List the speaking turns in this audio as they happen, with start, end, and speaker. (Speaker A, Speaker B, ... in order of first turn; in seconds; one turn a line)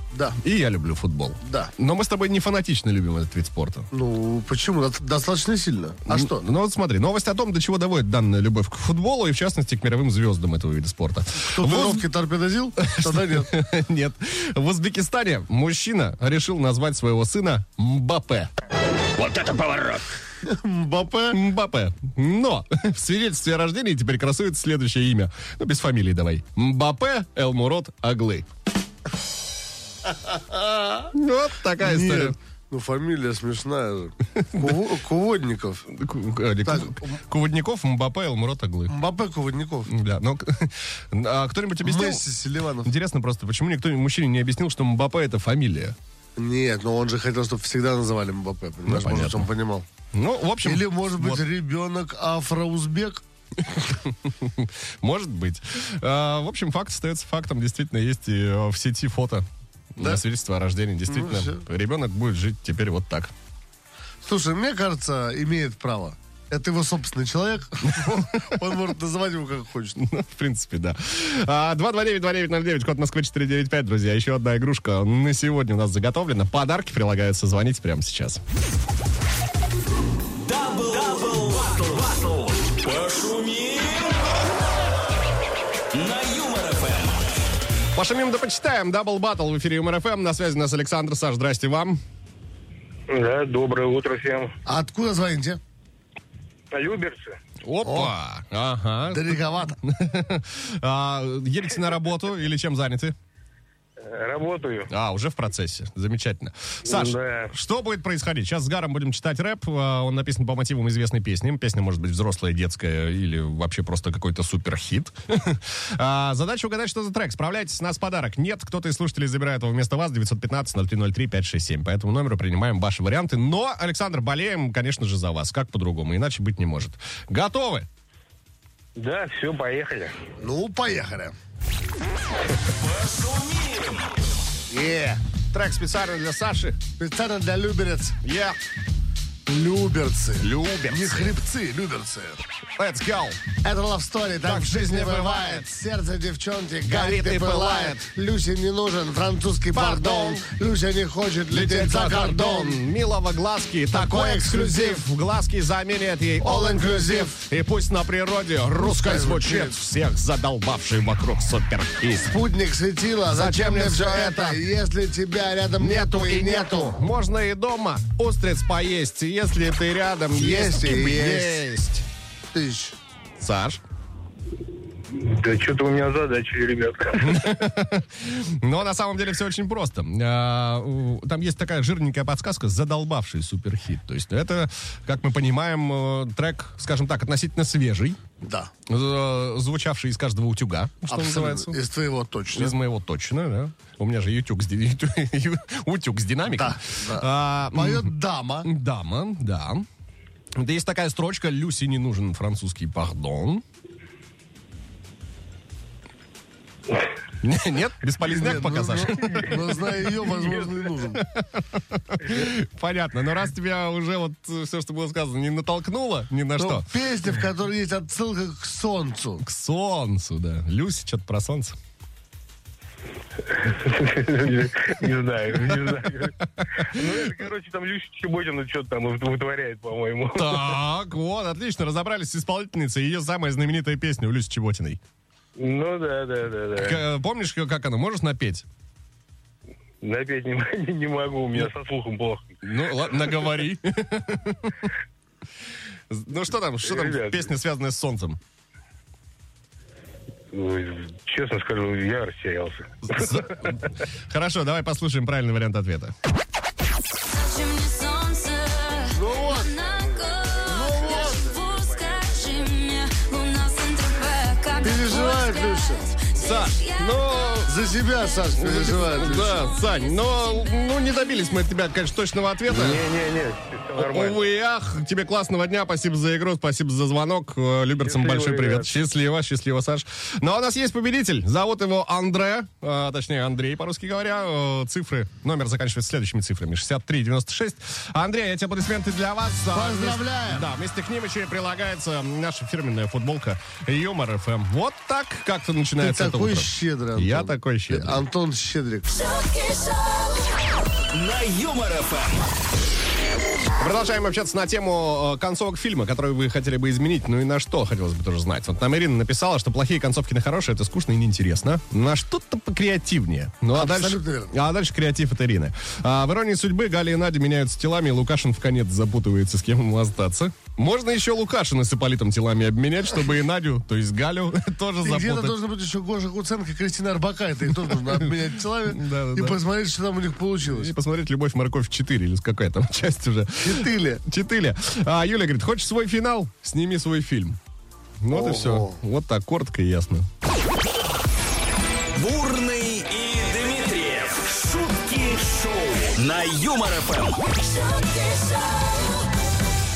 Speaker A: 0.1-0.4
Speaker B: 0.4-3.9
Speaker A: 1.4-1.7
Speaker A: 3.9-6.4
Speaker B: 6.1-12.1
Speaker A: 11.4-13.5
Speaker B: 12.8-18.5
Speaker B: 19.1-20.0
Speaker A: 20.4-21.4
Speaker B: 21.3-28.4
Speaker A: 30.1-31.1
Speaker B: 31.1-32.4
Speaker A: 31.8-35.9
Speaker B: 34.5-34.8
Speaker B: 35.9-38.9
Speaker A: 36.6-37.2
Speaker A: 38.9-39.9
Speaker B: 39.9-42.2
Speaker A: 41.8-42.9
Speaker B: 42.8-46.0
Speaker A: 46.4-49.8
Speaker B: 48.9-49.5
Speaker B: 50.1-51.4
Speaker A: 50.6-53.2
Speaker B: 53.6-63.3
Speaker A: 60.0-60.2
Speaker A: 61.1-61.6
Speaker A: 64.2-70.0
Speaker B: 67.9-68.6
Speaker B: 70.0-78.4
Speaker C: 80.4-84.4
Speaker C: 85.9-87.2
Speaker B: 87.9-92.0
Speaker D: 93.1-94.5
Speaker A: 94.7-95.6
Speaker D: 96.7-97.4
Speaker B: 97.6-103.1
Speaker A: 97.8-98.1
Speaker A: 99.1-99.8
Speaker D: 104.0-104.9
Speaker B: 104.9-127.9
Speaker D: 106.8-107.5
Speaker D: 128.9-130.2
Speaker A: 130.4-131.3
Speaker C: 132.7-134.1
Speaker A: 134.7-135.2
Speaker B: 135.5-136.8
Speaker A: 137.0-138.1
Speaker B: 138.2-138.6
Speaker A: 139.5-142.4
Speaker B: 140.4-141.3
Speaker B: 142.8-143.4
Speaker A: 143.6-152.8
Speaker B: 144.4-145.6
Speaker B: 146.8-148.1
Speaker B: 149.7-150.5
Speaker B: 151.5-162.3
Speaker A: 153.9-155.0
Speaker A: 156.4-157.4
Speaker A: 158.8-159.7
Speaker A: 162.2-166.9
Speaker B: 163.3-164.6
Speaker B: 165.8-172.0
Speaker A: 170.3-171.6
Speaker A: 172.5-172.9
Speaker B: 173.4-173.8
Speaker D: 175.1-177.4
Speaker B: 177.2-188.2
Speaker A: 188.4-188.7
Speaker B: 188.9-191.8
Speaker A: 191.1-192.8
Speaker B: 192.5-198.1
Speaker A: 196.5-198.7
Speaker B: 198.6-199.9
Speaker B: 200.5-203.6
Speaker B: 207.4-210.0
Speaker A: 208.2-211.2
Speaker B: 211.1-216.9
Speaker A: 216.6-219.4
Speaker B: 219.4-221.8
Speaker D: 223.4-230.8
Speaker B: 226.8-227.2
Speaker B: 230.3-235.0
Speaker D: 235.6-237.0
Speaker B: 236.8-238.7
Speaker D: 240.0-242.5
Speaker B: 242.6-244.9
Speaker B: 246.1-248.4
Speaker D: 246.8-247.5
Speaker D: 250.5-253.7
Speaker B: 253.0-256.1
Speaker E: 257.3-267.6
Speaker A: 259.1-260.0
Speaker A: 260.6-261.4
Speaker A: 264.8-266.1
Speaker B: 266.3-267.7
Speaker A: 267.6-269.6
Speaker B: 268.6-273.0
Speaker E: 269.4-271.6
Speaker D: 272.7-274.4
Speaker A: 272.7-272.9
Speaker B: 274.0-298.2
Speaker D: 278.1-278.9
Speaker A: 289.7-290.7
Speaker A: 296.0-299.1
Speaker E: 299.2-300.3
Speaker C: 301.1-302.5
Speaker B: 303.8-325.6
Speaker A: 313.7-314.5
Speaker A: 325.0-330.9
Speaker B: 327.8-329.6
Speaker B: 330.6-337.6
Speaker A: 333.6-334.2
Speaker B: 338.2-340.3
Speaker A: 338.3-339.0
Speaker C: 342.1-347.5
Speaker E: 347.9-348.6